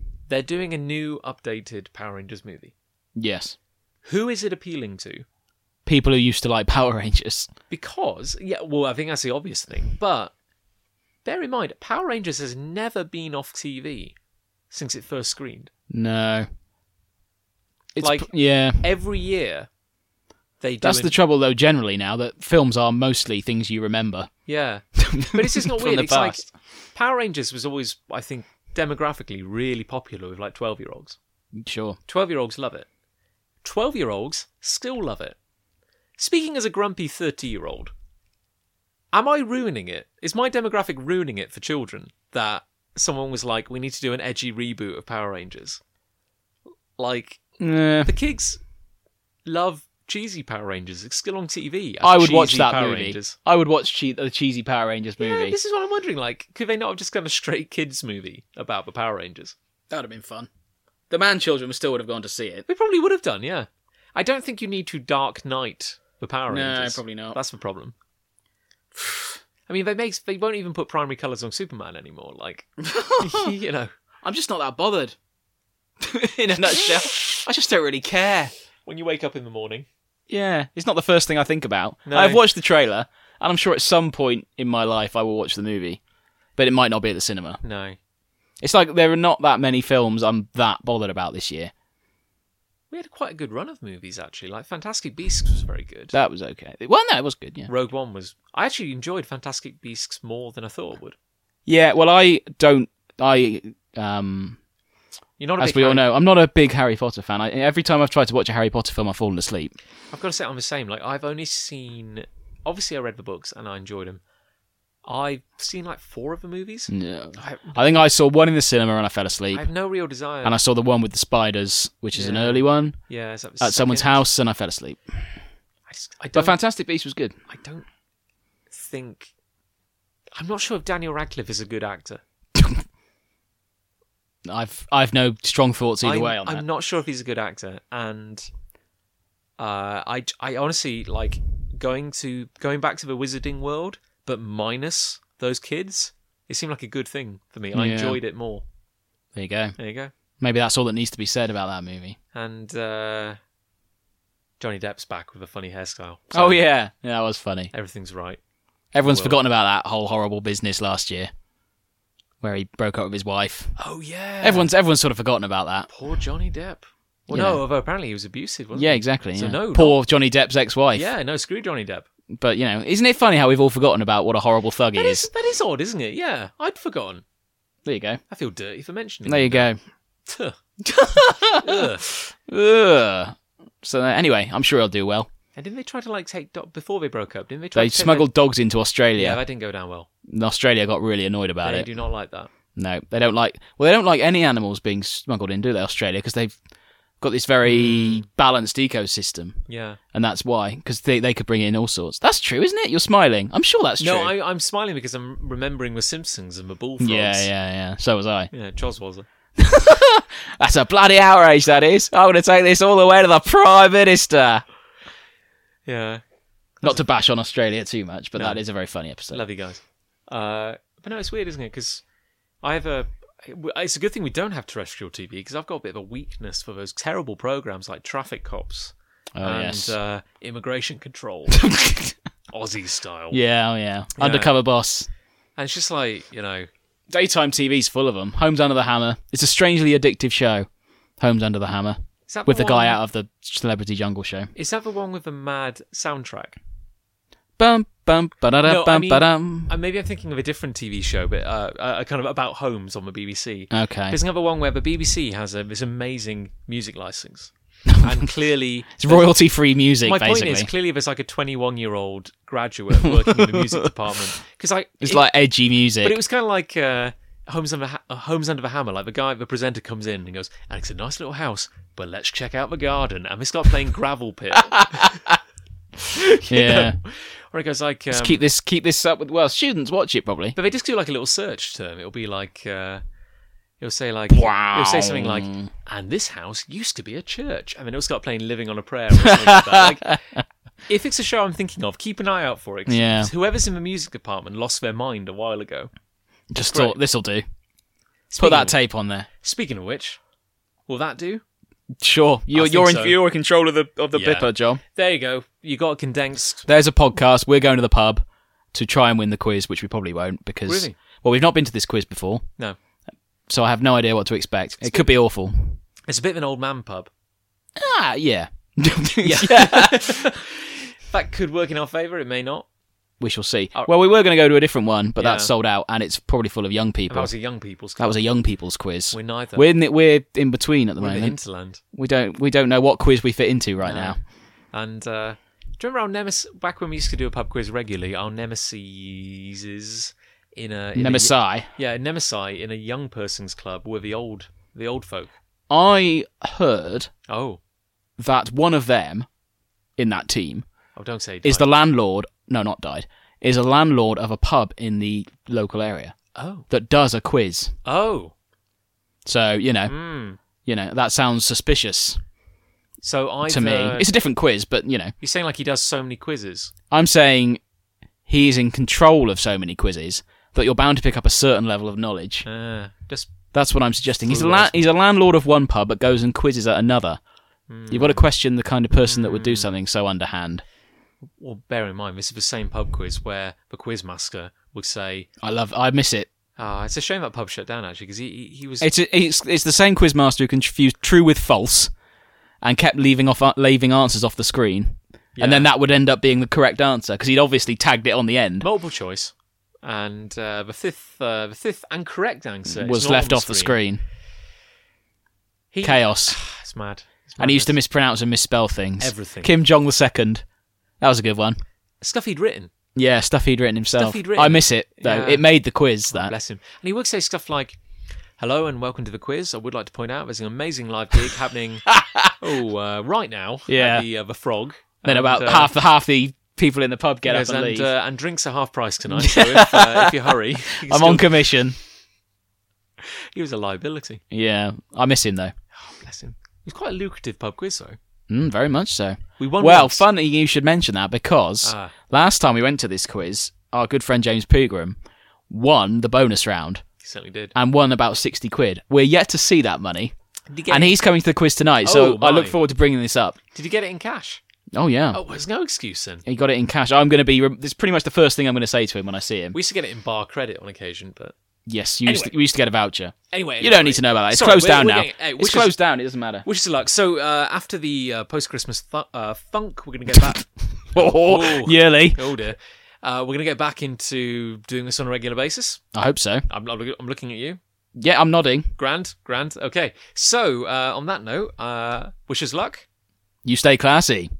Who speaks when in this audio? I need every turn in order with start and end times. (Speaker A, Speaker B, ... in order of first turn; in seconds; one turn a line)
Speaker A: 0.3-2.7
Speaker B: 3.1-3.5
Speaker A: 4.0-5.2
Speaker B: 5.8-7.5
Speaker A: 7.7-10.3
Speaker A: 11.2-14.1
Speaker A: 14.7-15.7
Speaker B: 15.9-16.5
Speaker B: 17.9-18.9
Speaker A: 18.0-19.7
Speaker A: 20.6-21.1
Speaker B: 20.8-24.3
Speaker A: 24.5-31.2
Speaker B: 25.0-26.4
Speaker B: 31.5-32.0
Speaker A: 32.1-32.9
Speaker A: 33.6-35.4
Speaker A: 36.2-37.9
Speaker A: 39.1-45.8
Speaker A: 47.0-47.4
Speaker B: 47.6-48.1
Speaker A: 48.0-48.6
Speaker A: 49.5-53.4
Speaker B: 52.0-55.6
Speaker A: 55.2-59.5
Speaker B: 59.9-60.5
Speaker B: 61.1-62.6
Speaker A: 62.7-67.9
Speaker B: 66.5-67.4
Speaker B: 68.9-69.4
Speaker A: 69.7-73.9
Speaker B: 72.8-73.5
Speaker B: 74.2-75.2
Speaker B: 76.0-78.4
Speaker A: 76.5-77.4
Speaker A: 78.1-79.8
Speaker B: 80.3-86.0
Speaker A: 82.0-82.4
Speaker B: 86.6-87.6
Speaker A: 87.6-88.0
Speaker B: 88.6-91.7
Speaker A: 92.9-96.2
Speaker B: 96.1-97.7
Speaker A: 97.7-101.1
Speaker B: 101.7-104.6
Speaker A: 105.4-106.1
Speaker B: 105.6-109.7
Speaker A: 110.1-114.2
Speaker A: 115.0-118.0
Speaker B: 116.9-119.7
Speaker A: 119.5-120.6
Speaker B: 120.4-123.0
Speaker A: 122.1-124.2
Speaker B: 123.6-125.3
Speaker A: 125.9-126.6
Speaker B: 126.3-127.3
Speaker A: 127.5-127.9
Speaker A: 128.7-129.3
Speaker A: 130.3-132.2
Speaker B: 132.5-132.8
Speaker B: 134.4-136.6
Speaker A: 136.0-138.5
Speaker A: 139.6-148.6
Speaker B: 147.7-148.2
Speaker B: 149.3-149.7
Speaker A: 149.8-150.1
Speaker B: 150.4-152.2
Speaker A: 152.3-153.4
Speaker A: 154.6-156.6
Speaker B: 156.3-157.7
Speaker A: 157.7-158.4
Speaker B: 158.9-161.3
Speaker A: 159.0-159.4
Speaker B: 162.4-163.7
Speaker A: 163.8-164.7
Speaker B: 164.4-165.9
Speaker A: 165.9-170.0
Speaker B: 167.3-167.6
Speaker B: 168.7-171.1
Speaker A: 170.9-172.1
Speaker B: 172.3-175.3
Speaker A: 174.9-177.2
Speaker B: 177.8-178.2
Speaker A: 178.3-179.7
Speaker B: 179.2-179.8
Speaker A: 180.2-180.6
Speaker B: 180.8-185.3
Speaker A: 181.6-182.0
Speaker A: 185.6-188.3
Speaker B: 187.7-189.4
Speaker A: 189.2-190.1
Speaker B: 190.3-191.9
Speaker A: 191.6-192.5
Speaker B: 192.8-196.6
Speaker B: 197.2-199.6
Speaker A: 197.6-198.3
Speaker A: 199.7-200.0
Speaker B: 200.1-204.3
Speaker A: 204.0-207.5
Speaker B: 207.0-208.5
Speaker A: 208.5-209.2
Speaker B: 209.6-214.6
Speaker A: 215.8-216.2
Speaker B: 216.8-219.4
Speaker A: 218.3-218.6
Speaker A: 219.3-222.0
Speaker A: 222.6-231.7
Speaker B: 229.3-229.9
Speaker B: 231.5-232.1
Speaker A: 232.5-233.4
Speaker B: 233.3-235.1
Speaker A: 234.2-234.5
Speaker A: 235.6-236.7
Speaker B: 237.1-240.7
Speaker B: 241.2-244.5
Speaker A: 242.3-243.0
Speaker A: 244.5-246.6
Speaker B: 247.6-249.7
Speaker A: 248.6-259.3
Speaker B: 253.7-254.2
Speaker B: 257.9-258.2
Speaker B: 259.0-260.7
Speaker A: 260.0-265.3
Speaker B: 263.3-263.9
Speaker B: 265.0-266.1
Speaker A: 266.0-275.2
Speaker B: 274.7-275.4
Speaker A: 276.1-278.4
Speaker B: 276.5-277.0
Speaker B: 278.1-280.6
Speaker A: 280.5-283.0
Speaker A: 283.8-290.2
Speaker B: 284.3-285.7
Speaker B: 289.2-290.4
Speaker A: 290.9-295.9
Speaker B: 292.9-293.3
Speaker B: 296.5-297.4
Speaker A: 296.6-297.0
Speaker A: 298.3-298.8
Speaker B: 298.4-299.3
Speaker A: 299.4-300.2
Speaker A: 300.9-301.4
Speaker B: 302.0-304.8
Speaker A: 302.5-303.2
Speaker A: 304.1-306.6
Speaker B: 306.6-312.4
Speaker A: 310.6-310.9
Speaker B: 313.5-315.8
Speaker A: 314.8-315.1
Speaker A: 316.1-317.1
Speaker B: 317.8-320.3
Speaker A: 319.2-322.6
Speaker B: 323.2-327.3
Speaker A: 325.2-325.5
Speaker A: 327.1-328.2
Speaker B: 328.0-331.4
Speaker A: 329.1-329.7
Speaker A: 331.0-331.8
Speaker B: 331.9-334.2
Speaker A: 333.8-334.1
Speaker A: 334.7-345.3
Speaker B: 340.9-341.7
Speaker B: 345.7-347.1
Speaker A: 347.3-347.6
Speaker B: 348.2-349.3
Speaker B: 350.0-350.6
Speaker A: 350.9-351.8
Speaker B: 351.4-356.1
Speaker A: 356.3-356.7
Speaker B: 356.7-357.7
Speaker A: 357.8-358.3
Speaker B: 359.2-359.9
Speaker A: 359.9-360.4
Speaker B: 360.6-362.2
Speaker A: 363.0-364.1
Speaker B: 363.5-365.1
Speaker A: 365.2-366.7
Speaker B: 366.9-367.6
Speaker B: 368.3-372.4
Speaker A: 372.4-373.3
Speaker B: 373.5-377.2
Speaker A: 374.2-374.8
Speaker A: 377.7-378.3
Speaker B: 377.9-380.6
Speaker A: 379.0-379.8
Speaker A: 381.4-385.3
Speaker B: 385.4-386.3
Speaker A: 386.6-388.9
Speaker B: 388.8-391.9
Speaker B: 392.6-398.7
Speaker A: 395.4-395.7
Speaker A: 398.6-403.8
Speaker B: 402.7-404.0
Speaker A: 405.7-407.8
Speaker B: 405.8-406.4
Speaker B: 407.4-410.4
Speaker A: 409.0-409.5
Speaker B: 411.0-411.6
Speaker A: 412.0-412.7
Speaker B: 412.9-416.3
Speaker A: 413.9-415.5
Speaker A: 416.1-417.8
Speaker A: 418.4-421.9
Speaker B: 421.9-422.4
Speaker A: 422.4-425.7
Speaker B: 423.7-424.1
Speaker B: 425.0-427.9
Speaker A: 427.2-431.5
Speaker B: 429.2-431.8
Speaker A: 433.0-434.2
Speaker B: 434.3-435.5
Speaker A: 435.8-438.0
Speaker B: 438.3-445.0
Speaker A: 439.4-440.0
Speaker A: 441.6-441.9
Speaker B: 445.5-446.8
Speaker A: 447.0-447.5
Speaker B: 447.5-450.1
Speaker A: 450.5-451.0
Speaker B: 450.7-453.4
Speaker A: 451.8-452.6
Speaker A: 453.5-454.4
Speaker B: 454.7-455.2
Speaker A: 455.1-456.2
Speaker B: 456.2-459.6
Speaker A: 459.5-461.3
Speaker B: 461.6-466.4
Speaker A: 462.0-462.3
Speaker A: 463.3-465.7
Speaker A: 466.4-475.8
Speaker B: 470.9-472.2
Speaker B: 475.9-476.4
Speaker A: 476.5-477.6
Speaker B: 477.9-478.7
Speaker A: 478.8-482.8
Speaker B: 483.4-484.3